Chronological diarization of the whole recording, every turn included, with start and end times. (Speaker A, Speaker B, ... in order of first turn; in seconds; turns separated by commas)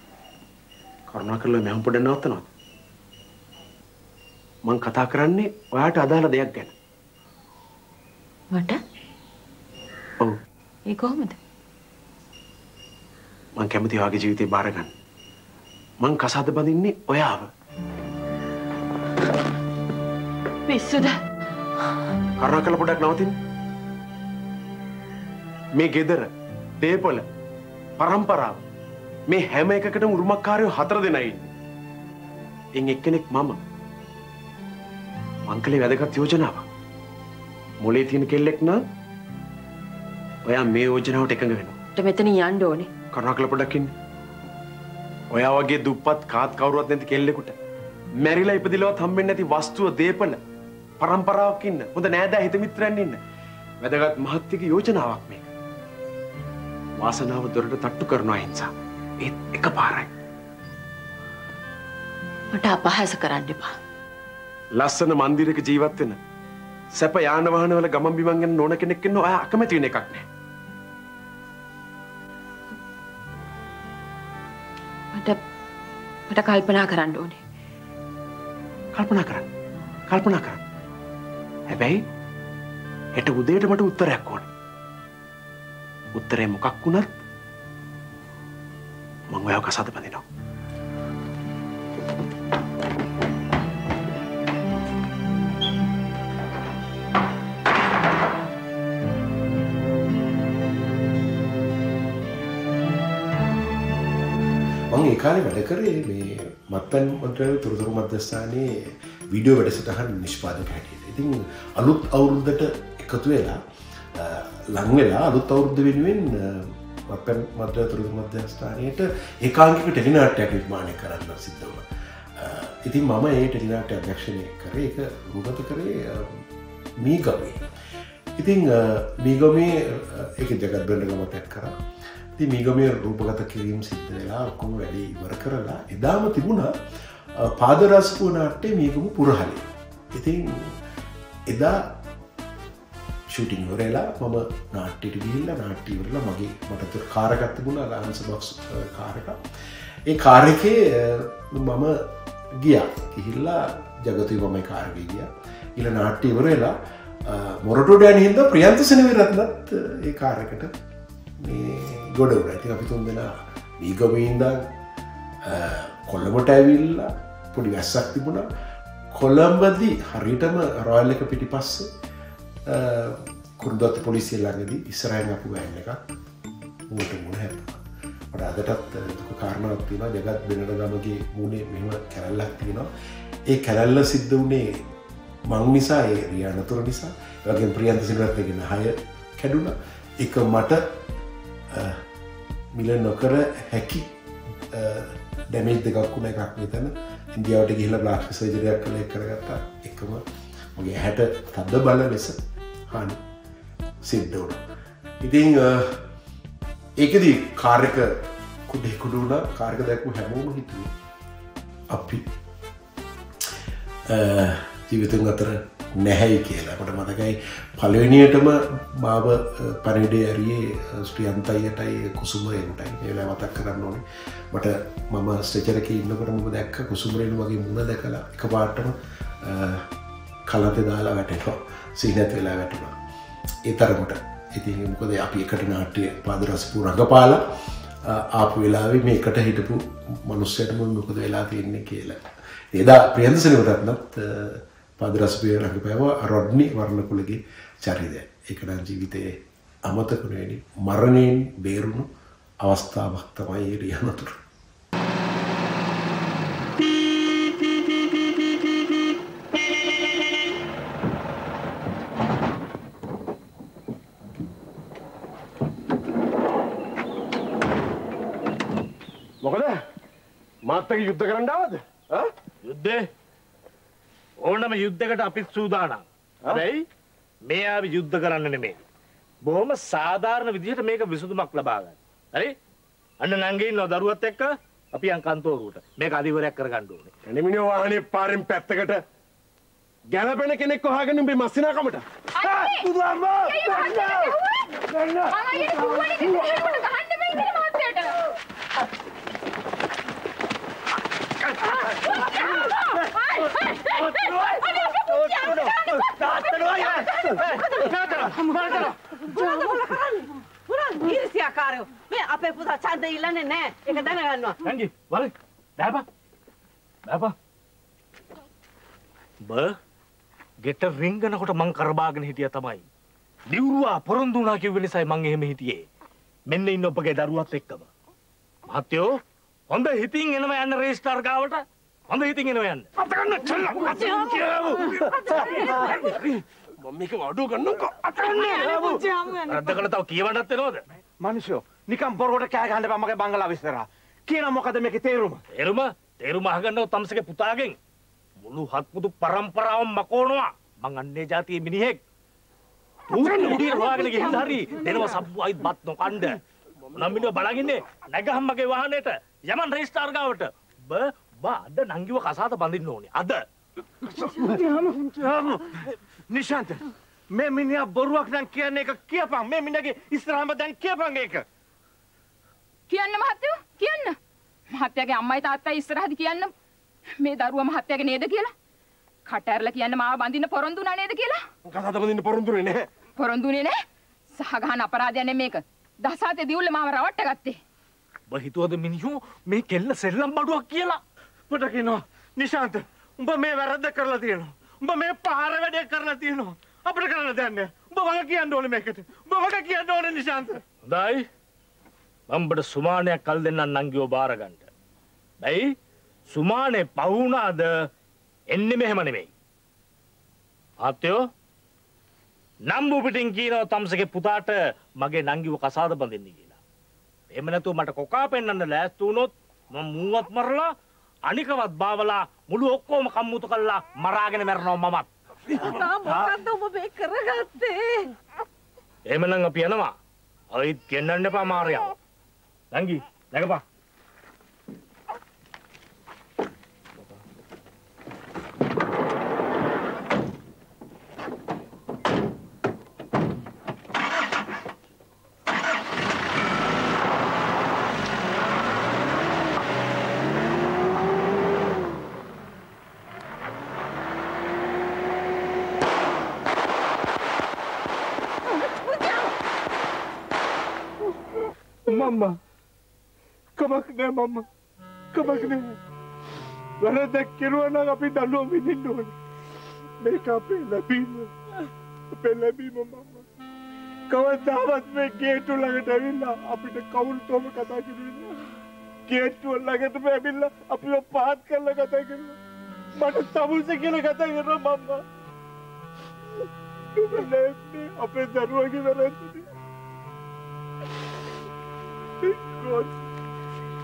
Speaker A: 1.1-2.5, Speaker A: 4.7-6.7, Speaker B: 8.5-8.8, Speaker B: 10.9-11.4, Speaker A: 13.6-14.9, Speaker A: 16.0-17.5, Speaker B: 20.7-21.2, Speaker A: 22.4-23.4, Speaker A: 25.8-27.3, Speaker A: 28.0-28.6, Speaker A: 29.3-31.5, Speaker A: 32.8-33.6, Speaker A: 35.5-36.7, Speaker A: 37.8-38.8, Speaker A: 40.5-41.8, Speaker B: 42.0-42.9, Speaker A: 43.1-43.9, Speaker A: 45.3-47.5, Speaker A: 48.2-50.4, Speaker A: 51.0-53.2, Speaker A: 53.8-55.5, Speaker A: 57.0-58.7, Speaker A: 59.2-60.1, Speaker B: 62.5-63.8, Speaker A: 64.8-66.2, Speaker A: 66.9-70.2, Speaker B: 75.1-75.4, Speaker B: 76.3-77.4, Speaker A: 79.0-79.5, Speaker A: 80.1-80.6, Speaker A: 81.7-82.0, Speaker A: 83.2-84.5, Speaker A: 86.2-87.1, Speaker A: 89.3-90.2, Speaker C: 104.9-113.6, Speaker C: 114.2-121.8, Speaker C: 122.4-126.4, Speaker C: 127.0-127.6, Speaker C: 128.4-131.7, Speaker C: 132.4-136.7, Speaker C: 137.4-140.8, Speaker C: 141.5-141.9, Speaker C: 143.3-149.4, Speaker C: 150.1-152.1, Speaker C: 152.6-156.7, Speaker C: 157.3-160.7, Speaker C: 161.4-164.7, Speaker C: 165.4-168.5, Speaker C: 169.1-171.9, Speaker C: 172.7-176.0, Speaker C: 176.9-177.8, Speaker C: 178.3-182.9, Speaker C: 183.5-184.8, Speaker C: 185.5-190.8, Speaker C: 191.7-192.0, Speaker C: 192.7-194.1, Speaker C: 194.7-200.2, Speaker C: 200.8-202.4, Speaker C: 202.9-203.2, Speaker C: 204.0-204.6, Speaker C: 205.2-206.0, Speaker C: 207.0-210.9, Speaker C: 211.9-212.3, Speaker C: 214.1-229.9, Speaker C: 230.5-232.9, Speaker C: 233.7-237.4, Speaker C: 238.0-242.2, Speaker C: 242.7-249.3, Speaker C: 249.9-252.1, Speaker C: 252.6-254.4, Speaker A: 269.4-269.8, Speaker A: 270.7-272.3, Speaker D: 272.6-273.1, Speaker D: 274.4-276.9, Speaker D: 277.4-278.8, Speaker D: 279.4-282.6, Speaker D: 283.2-287.1, Speaker A: 287.2-289.0, Speaker A: 290.1-292.1, Speaker E: 292.4-298.2, Speaker E: 303.4-304.2, Speaker E: 304.7-306.1, Speaker D: 305.3-309.0, Speaker F: 308.7-314.6, Speaker D: 314.6-316.1, Speaker D: 317.1-317.4, Speaker D: 319.4-319.8, Speaker D: 320.6-322.8, Speaker D: 323.5-325.9, Speaker D: 326.5-327.9, Speaker D: 328.7-329.2, Speaker D: 329.7-332.9, Speaker G: 333.2-334.6, Speaker D: 333.9-335.0, Speaker A: 336.8-338.0, Speaker D: 338.4-338.9, Speaker D: 339.5-340.8, Speaker G: 341.2-343.2, Speaker A: 341.4-341.9, Speaker A: 342.6-345.0, Speaker G: 344.5-345.3, Speaker D: 345.5-347.8, Speaker D: 348.4-352.0, Speaker D: 353.1-356.4, Speaker D: 356.9-363.4, Speaker G: 365.0-365.5, Speaker G: 367.3-371.4, Speaker E: 372.9-374.2, Speaker E: 374.7-376.5, Speaker E: 377.2-378.5, Speaker E: 379.3-381.4, Speaker A: 381.7-382.9, Speaker E: 383.2-383.8, Speaker E: 384.3-387.6, Speaker D: 388.3-391.0, Speaker G: 391.5-400.6, Speaker D: 400.8-401.3, Speaker D: 402.3-404.7, Speaker D: 405.4-405.7, Speaker D: 406.3-407.7, Speaker D: 408.5-409.3, Speaker D: 410.8-411.2, Speaker D: 412.7-416.6, Speaker D: 417.3-420.7, Speaker D: 421.3-426.3, Speaker F: 425.6-427.9, Speaker D: 429.1-429.9, Speaker D: 430.5-431.9, Speaker D: 432.7-433.6, Speaker G: 461.9-462.4, Speaker G: 463.6-464.5, Speaker G: 465.1-465.8, Speaker G: 466.8-469.1, Speaker G: 470.0-471.3, Speaker G: 472.1-473.2, Speaker G: 474.1-478.4, Speaker G: 479.1-482.4, Speaker G: 483.0-485.0, Speaker G: 487.0-489.4, Speaker G: 492.2-492.9